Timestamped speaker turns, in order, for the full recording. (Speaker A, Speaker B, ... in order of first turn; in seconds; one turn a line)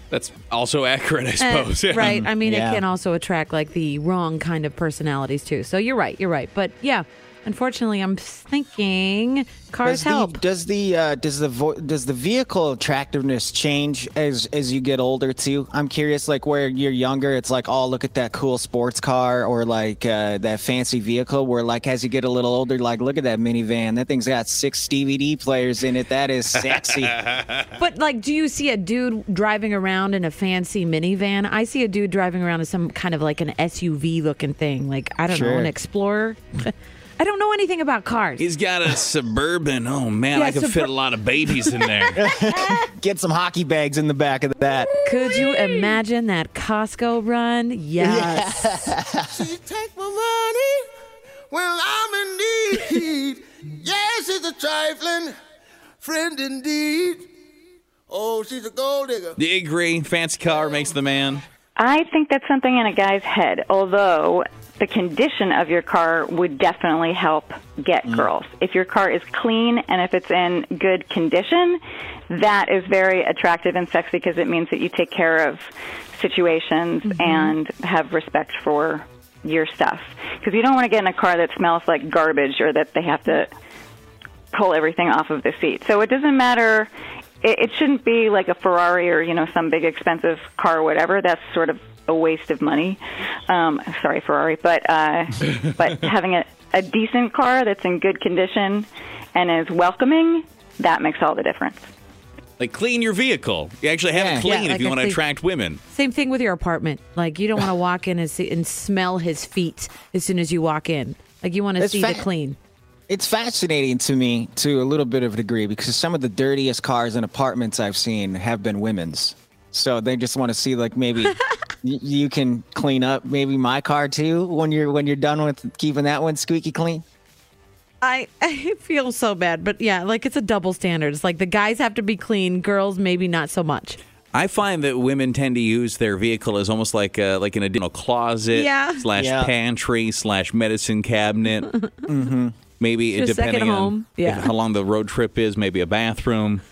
Speaker A: 0.1-2.2
Speaker B: 1.4-10.4
Speaker C: 2.0-2.8
Speaker C: 9.8-27.2
Speaker A: 27.2-27.7
Speaker B: 27.8-38.5
Speaker C: 35.3-35.7
Speaker A: 38.4-42.2
Speaker B: 40.3-40.9
Speaker B: 41.4-42.1
Speaker C: 42.2-45.3
Speaker B: 45.0-48.8
Speaker C: 48.0-49.5
Speaker D: 49.4-50.9
Speaker D: 51.5-55.4
Speaker D: 56.0-57.3
Speaker D: 58.1-59.4
Speaker A: 59.4-61.4
Speaker E: 61.8-71.8
Speaker E: 72.3-75.7
Speaker E: 76.2-83.5
Speaker B: 77.1-77.5
Speaker E: 84.5-86.9
Speaker E: 87.4-101.8
Speaker A: 102.6-105.8
Speaker C: 104.1-104.5
Speaker B: 104.4-105.2
Speaker B: 105.9-112.6
Speaker C: 111.8-112.3
Speaker C: 113.1-127.0
Speaker B: 128.0-134.0
Speaker A: 134.3-141.8
Speaker B: 138.5-139.1
Speaker C: 139.1-139.5
Speaker C: 142.1-142.5
Speaker A: 142.8-146.6
Speaker B: 143.1-144.5